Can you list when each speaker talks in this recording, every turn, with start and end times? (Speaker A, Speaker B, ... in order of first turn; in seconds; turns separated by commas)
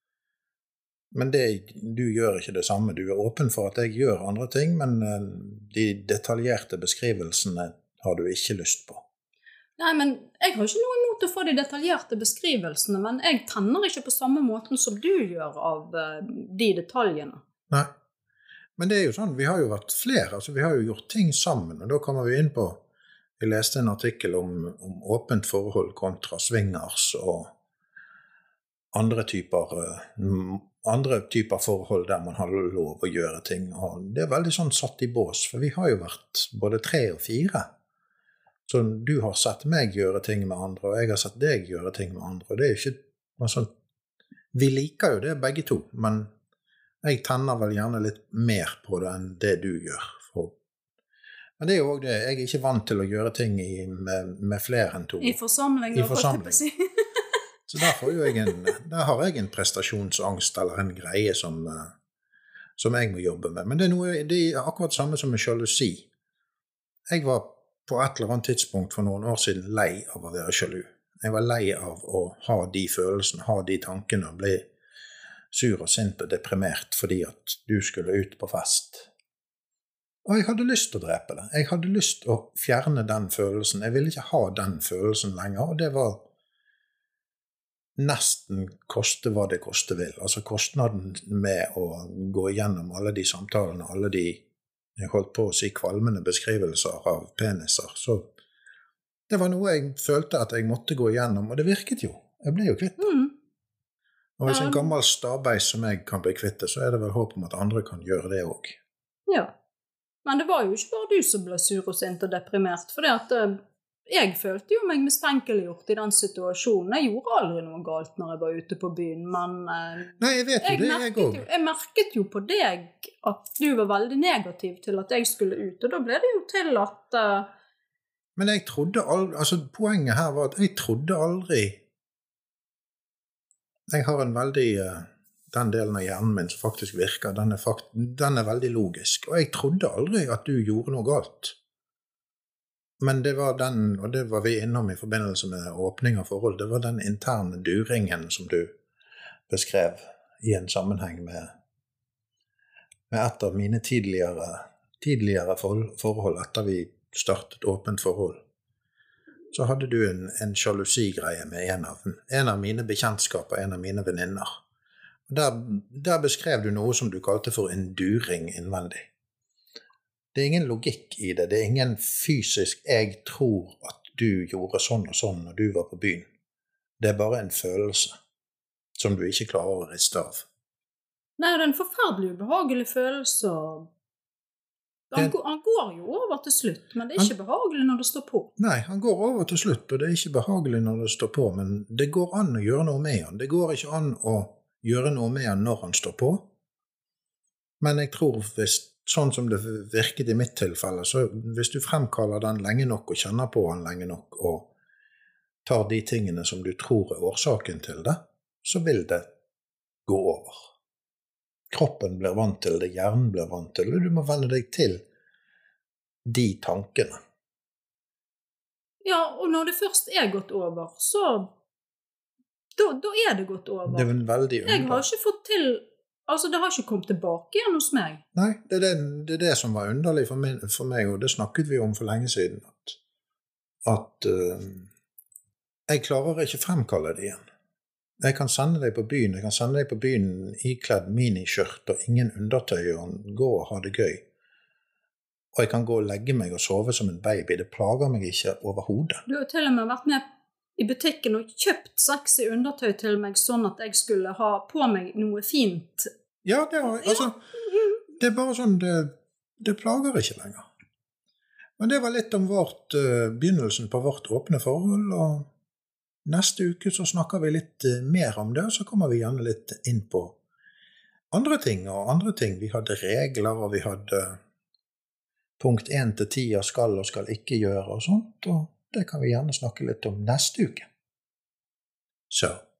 Speaker A: 1.1-9.0, Speaker B: 9.8-17.4, Speaker A: 18.8-22.8, Speaker A: 23.4-27.5, Speaker A: 28.9-37.7, Speaker A: 38.6-43.7, Speaker A: 44.5-46.3, Speaker A: 47.0-50.5, Speaker A: 51.6-55.4, Speaker B: 55.2-57.2, Speaker A: 55.9-56.6, Speaker A: 57.7-61.9, Speaker B: 57.8-58.5, Speaker A: 62.8-66.1, Speaker A: 67.1-74.7, Speaker A: 75.5-79.1, Speaker A: 80.2-86.2, Speaker A: 88.0-94.4, Speaker A: 95.0-98.3, Speaker A: 99.3-103.1, Speaker B: 103.0-103.3, Speaker A: 104.4-108.8, Speaker B: 104.5-104.9, Speaker B: 109.3-109.5, Speaker B: 110.2-127.5, Speaker A: 120.2-121.4, Speaker A: 128.3-131.8, Speaker A: 133.9-141.5, Speaker A: 143.0-148.7, Speaker A: 149.5-151.5, Speaker A: 153.1-158.4, Speaker A: 159.5-164.5, Speaker A: 165.3-169.1, Speaker A: 170.3-176.2, Speaker A: 177.0-178.1, Speaker A: 179.0-180.4, Speaker B: 181.4-183.9, Speaker B: 185.1-188.5, Speaker A: 188.6-196.5, Speaker A: 197.8-204.7, Speaker A: 205.6-209.3, Speaker A: 210.1-210.7, Speaker A: 211.7-215.0, Speaker A: 216.2-217.2, Speaker B: 219.0-221.5, Speaker B: 222.8-224.1, Speaker A: 223.9-225.0, Speaker B: 224.6-228.2, Speaker A: 228.3-233.0, Speaker A: 233.8-234.9, Speaker A: 235.9-237.4, Speaker A: 238.2-244.2, Speaker A: 245.5-249.2, Speaker B: 249.2-250.2, Speaker B: 250.8-256.1, Speaker A: 256.4-257.4, Speaker A: 258.2-260.6, Speaker A: 261.8-265.5, Speaker A: 266.2-270.4, Speaker A: 271.3-274.4, Speaker A: 275.6-280.9, Speaker A: 282.3-282.6